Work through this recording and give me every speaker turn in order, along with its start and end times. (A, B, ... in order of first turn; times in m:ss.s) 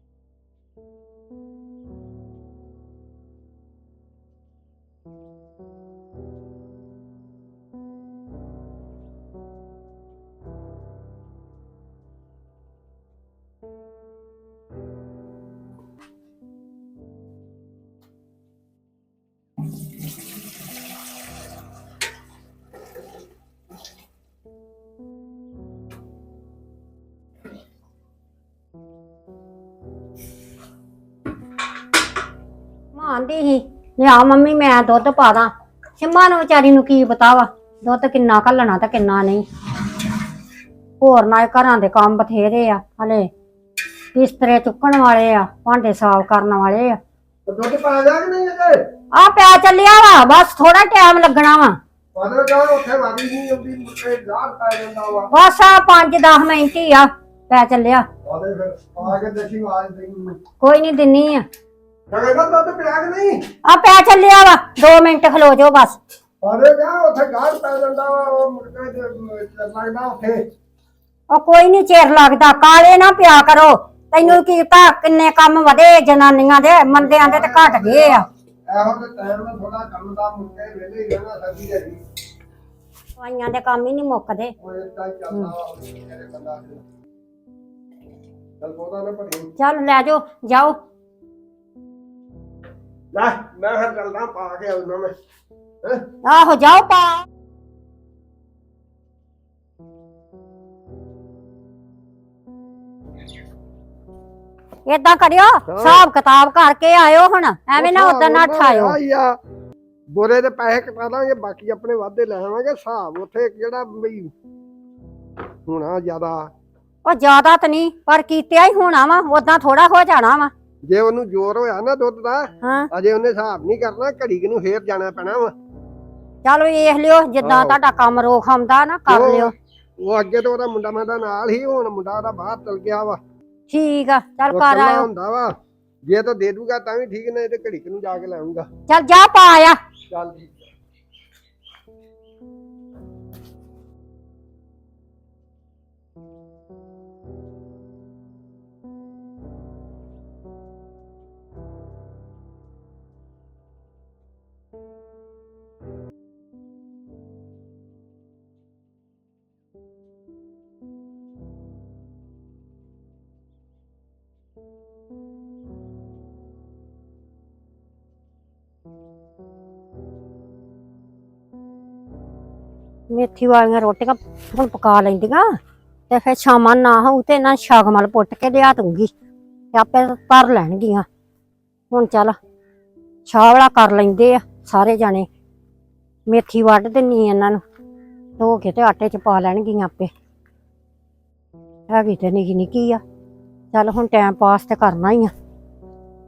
0:32.9-0:39.4 A
0:41.0-0:43.3 A
0:44.1-0:47.0 A
0:47.4-0:48.8 B
0:49.1-0:51.8 A
0:52.1-0:55.3 B
0:55.3-0:58.0 A
0:58.2-1:00.4 B
1:00.6-1:01.4 A
1:02.1-1:03.4 B
1:03.6-1:06.0 A
1:06.4-1:10.4 B
1:11.3-1:18.2 A
1:17.0-1:22.0 B
1:23.2-1:24.5 A
1:24.6-1:26.8 B
1:28.6-1:29.5 B
1:29.6-1:30.8 A
1:33.1-1:35.1 B
1:36.2-1:37.2 A
1:44.9-1:49.0 A
1:45.7-1:46.0 B
1:47.8-1:49.4 B
1:50.1-1:54.3 B
1:55.6-1:56.5 B
1:57.0-2:00.5 A
2:00.8-2:05.5 B
2:02.6-2:02.9 A
2:06.4-2:09.5 A
2:07.4-2:07.8 B
2:09.1-2:13.2 B
2:13.7-2:15.1 A
2:14.5-2:15.5 B
2:16.0-2:18.7 B
2:18.9-2:19.8 A
2:20.1-2:20.6 B
2:53.1-2:55.5 A
2:56.1-2:59.1 A
2:59.7-3:01.1 A
3:01.9-3:02.4 A
3:03.2-3:05.3 A
3:06.3-3:07.6 A
3:08.4-3:10.1 A
3:11.9-3:13.0 A
3:13.7-3:15.3 A